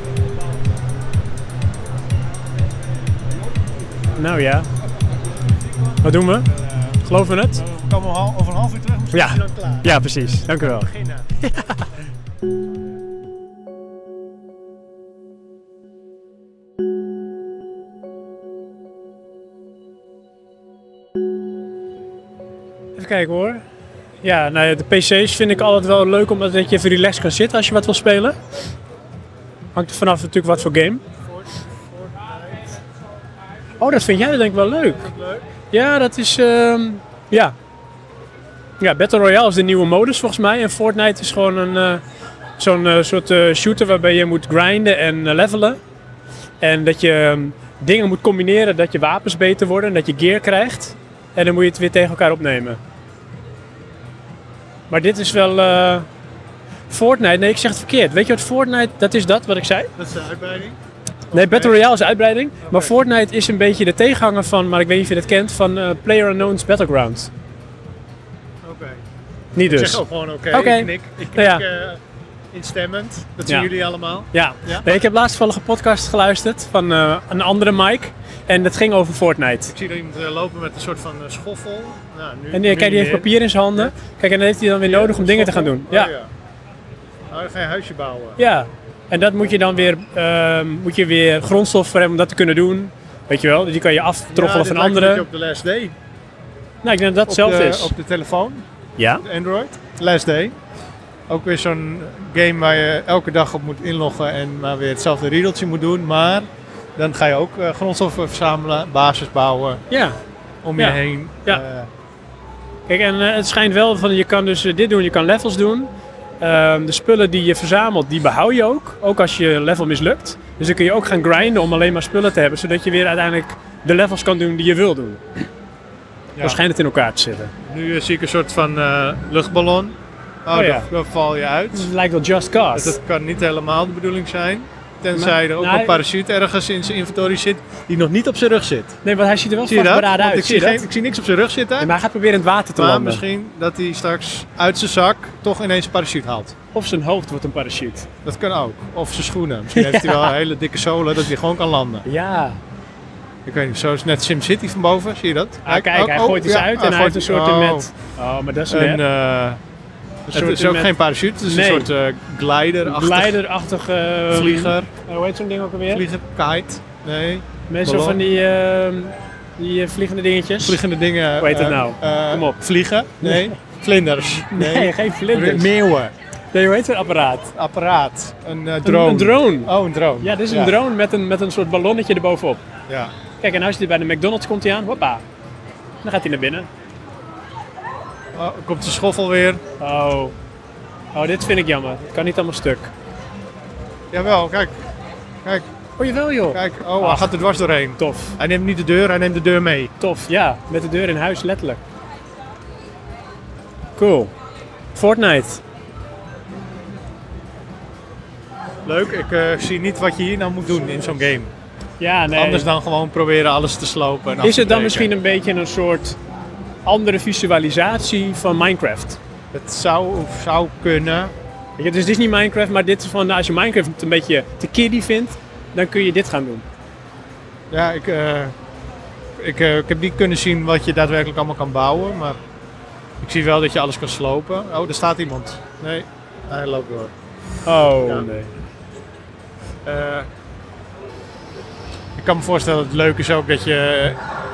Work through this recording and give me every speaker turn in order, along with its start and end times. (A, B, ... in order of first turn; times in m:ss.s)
0:04.2-0:04.7 A
0:06.0-0:06.5 A
0:06.5-0:11.3 B
0:07.0-0:07.6 A
0:09.1-0:11.8 A
0:23.0-0:23.6 A
0:24.2-0:28.4 A
0:29.7-0:31.0 A
0:31.2-0:32.8 B
0:33.8-0:35.1 A
0:34.9-0:35.5 B
0:35.7-0:37.5 A
0:38.8-0:42.0 A
0:42.6-0:45.8 A
0:46.6-0:52.8 A
0:54.9-0:56.1 A
0:56.9-0:59.9 A
1:00.0-1:00.8 B
1:01.3-1:07.3 A
1:01.3-1:01.8 B
1:02.6-1:03.0 B
1:08.6-1:09.0 B
1:09.6-1:11.6 A
1:09.6-1:12.0 B
1:12.5-1:14.8 B
1:14.3-1:19.7 A
1:19.7-1:23.9 B
1:22.5-1:26.1 A
1:24.8-1:26.3 B
1:27.3-1:28.4 B
1:28.4-1:35.2 A
1:34.3-1:36.0 B
1:36.8-1:37.9 A
1:37.3-1:38.6 B
1:39.0-1:39.2 A
1:39.2-1:40.6 B
1:41.3-1:49.8 B
1:49.9-1:50.2 A
1:50.6-1:51.9 B
1:50.8-1:51.6 A
1:52.9-1:55.9 A
1:56.4-2:05.2 A
2:06.4-2:07.5 A
2:07.6-2:11.9 B
2:10.5-2:10.9 A
2:11.7-2:13.0 A
2:12.7-2:19.0 B
2:15.1-2:16.0 A
2:19.0-2:20.8 A
2:19.6-2:21.9 B
2:21.8-2:23.2 A
2:22.8-2:26.5 B
2:26.7-2:28.1 A
2:28.2-2:32.0 B
2:29.7-2:30.3 A
2:32.0-2:32.6 A
2:33.4-2:37.9 B
2:35.6-2:39.0 A
2:38.7-2:39.6 B
2:40.3-2:43.4 B
2:40.3-2:40.9 A
2:41.4-2:41.9 A
2:42.8-2:46.0 A
2:44.3-2:44.9 B
2:45.9-2:48.2 B
2:47.7-2:50.8 A
2:50.6-2:56.1 B
2:51.4-2:52.6 A
2:53.2-2:53.5 A
2:54.5-2:55.7 A
2:56.5-2:57.5 A
2:57.5-3:00.7 B
2:58.8-3:02.6 A
3:02.9-3:03.1 B
3:03.4-3:05.2 A
3:06.0-3:06.7 A
3:08.3-3:09.6 B
3:09.8-3:10.3 A
3:11.1-3:12.9 A
3:14.1-3:14.7 B
3:16.0-3:17.3 A
3:16.5-3:19.9 B
3:18.0-3:18.4 A
3:20.0-3:21.8 A
3:24.0-3:24.3 A
3:24.9-3:25.6 A
3:28.8-3:31.5 B
3:32.0-3:32.7 A
3:32.3-3:35.1 B
3:34.4-3:36.2 A
3:36.8-3:39.2 A
3:39.5-3:41.3 B
3:41.8-3:46.6 A
3:47.7-3:48.5 B
3:49.4-3:52.4 B
3:53.2-3:57.1 B
3:57.6-3:58.5 A
3:58.0-3:58.3 B
3:59.8-4:00.3 B
4:02.1-4:04.2 B